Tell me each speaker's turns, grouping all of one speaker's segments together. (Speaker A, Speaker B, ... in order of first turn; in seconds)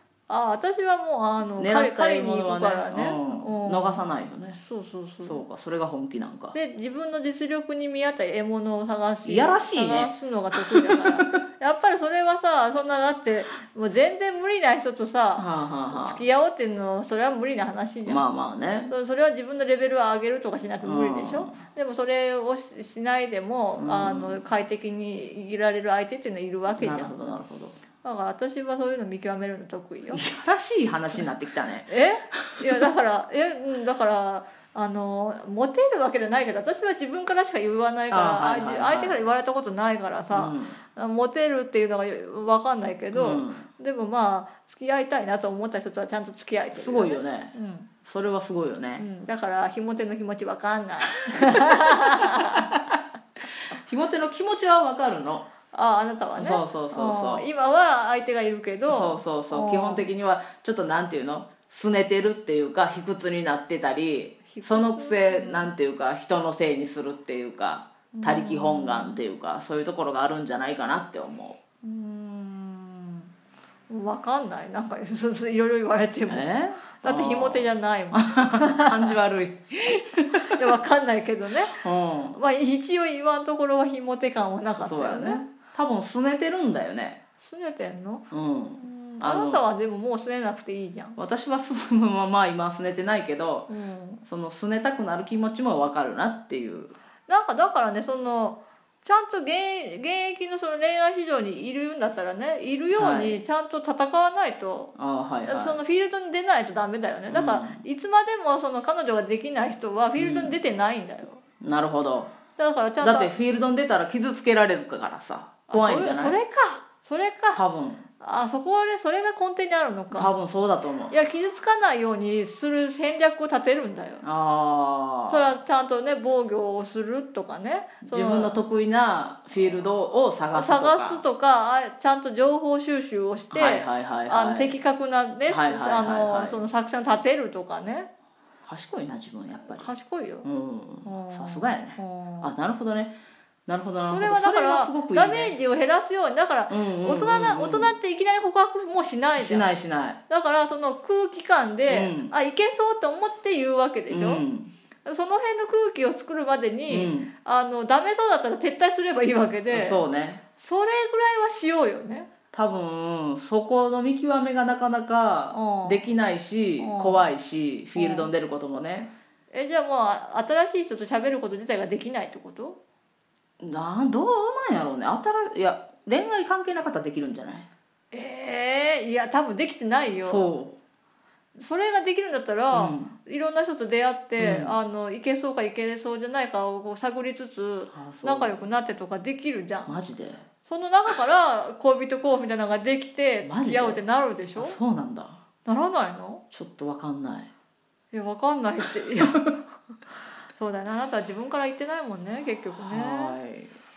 Speaker A: 0.3-5.4, 6.5-18.2, 18.9-27.4, 28.0-30.2, 31.9-47.9, 49.0-52.7, 55.7-60.1, 64.5-65.7, 68.1-69.2, 71.8-73.3, 73.9-79.2, 80.4-81.8, 82.3-85.5, 87.4-91.2, 93.7-94.2, 97.3-104.9, 105.5-111.4, 112.6-113.3, 115.7-117.6, 118.2-120.3, 121.1-124.2, 125.3-128.6, 130.5-138.1, 139.7-140.5, 141.1-142.5, 144.0-149.7, 150.3-154.4, 155.1-160.0, 160.6-162.3, 165.5-166.0, 166.8-167.2, 168.0-168.3, 169.5-172.8, 178.1-180.5, 181.6-190.0, 190.7-194.8, 195.7-196.4, 198.1-199.7, 200.5-203.4
Speaker B: 1.6-4.6, 5.2-6.6, 9.2-11.4, 15.4-16.2, 18.1-18.9, 20.8-21.6, 23.8-24.4, 26.7-27.8, 30.1-32.6, 38.1-39.2, 40.3-40.8, 43.1-43.7, 46.7-49.1, 51.4-53.0, 53.7-55.5, 56.4-57.5, 58.9-71.6, 76.3-80.6, 81.7-82.4, 84.8-87.2, 88.3-89.6, 91.2-93.7, 94.3-97.0, 103.0-103.4, 105.0-105.8, 107.3-107.8, 110.2-110.6, 111.6-112.3, 113.0-116.4, 117.5-118.0, 120.1-121.2, 124.2-125.5, 128.0-131.2, 133.5-134.8, 135.5-136.6, 138.7-139.9, 140.4-143.2, 143.7-145.6, 146.7-147.9, 149.4-150.2, 151.9-152.3, 154.1-154.7, 156.9-157.3, 159.7-160.4, 162.5-169.1, 173.6-177.7, 180.2-180.8, 182.7-183.1, 184.4-184.8, 187.9-188.6, 189.9-190.5, 193.4-194.0, 194.6-195.4, 196.5-197.5, 202.8-203.8